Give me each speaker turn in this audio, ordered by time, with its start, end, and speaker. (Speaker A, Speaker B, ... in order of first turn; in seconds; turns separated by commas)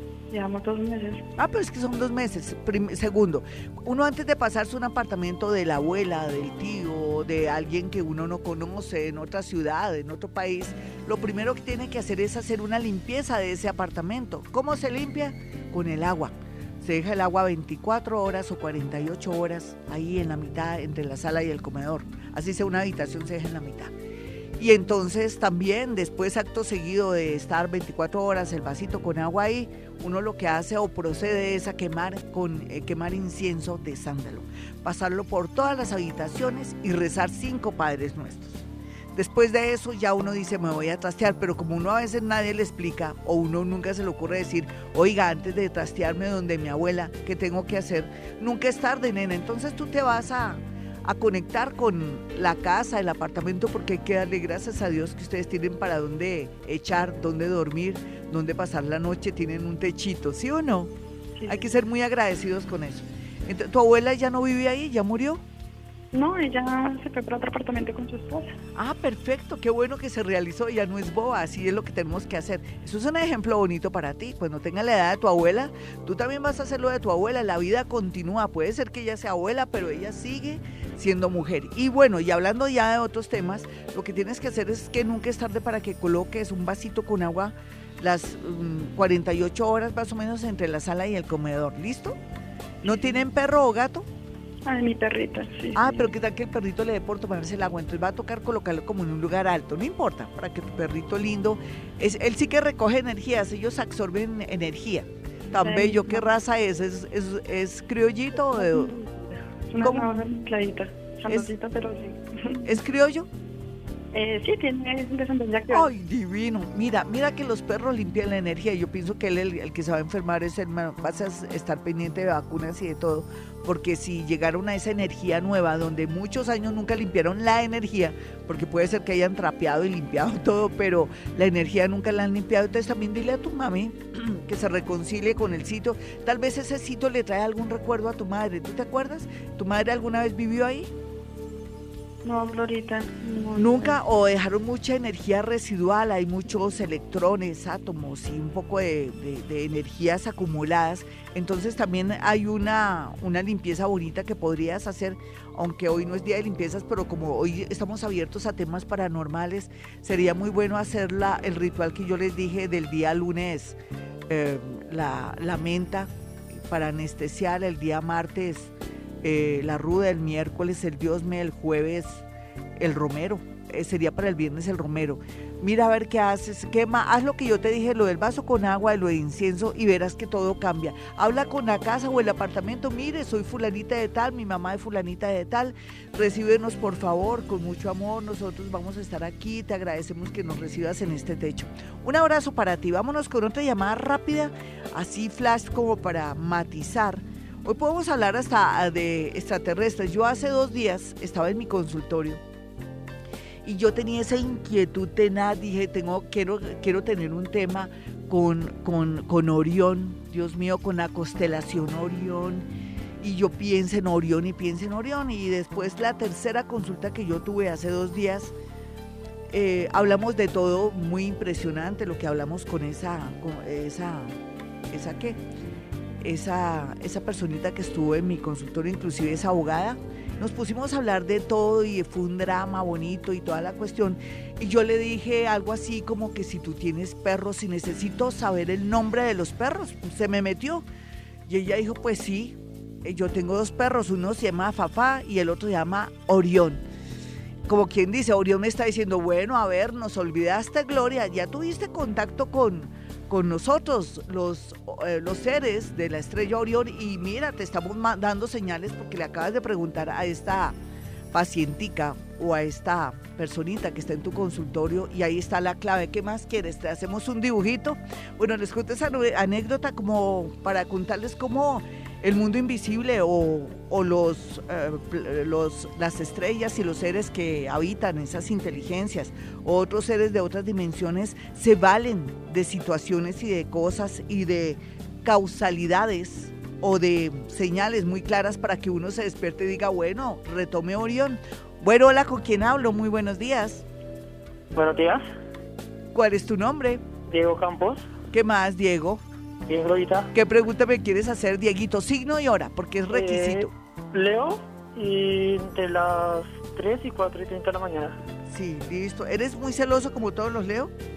Speaker A: 0.3-1.2, Speaker B: 1.4-23.9, Speaker B: 24.6-60.9, Speaker A: 61.4-61.7, Speaker B: 61.5-65.4, Speaker A: 66.1-68.6, Speaker B: 68.8-92.2, Speaker B: 92.8-94.1, Speaker A: 92.9-93.2, Speaker A: 94.7-96.1, Speaker B: 95.8-109.0, Speaker A: 105.5-106.2, Speaker A: 108.5-112.8, Speaker B: 109.8-110.2, Speaker B: 112.7-113.3, Speaker A: 114.1-115.9, Speaker B: 115.7-140.9, Speaker A: 142.2-144.0, Speaker B: 143.6-166.1, Speaker B: 166.7-168.7, Speaker B: 169.2-172.2, Speaker B: 172.8-202.4, Speaker B: 203.6-212.7, Speaker B: 213.2-218.5, Speaker B: 219.5-224.4, Speaker B: 224.9-225.4, Speaker B: 226.2-240.8, Speaker B: 241.5-246.8, Speaker B: 247.7-260.8, Speaker B: 261.3-293.9, Speaker C: 294.7-295.2, Speaker B: 296.1-297.0, Speaker C: 297.3-298.1, Speaker B: 298.3-299.2, Speaker C: 299.7-300.3, Speaker B: 300.3-303.7, Speaker C: 303.1-308.2, Speaker B: 308.5-310.9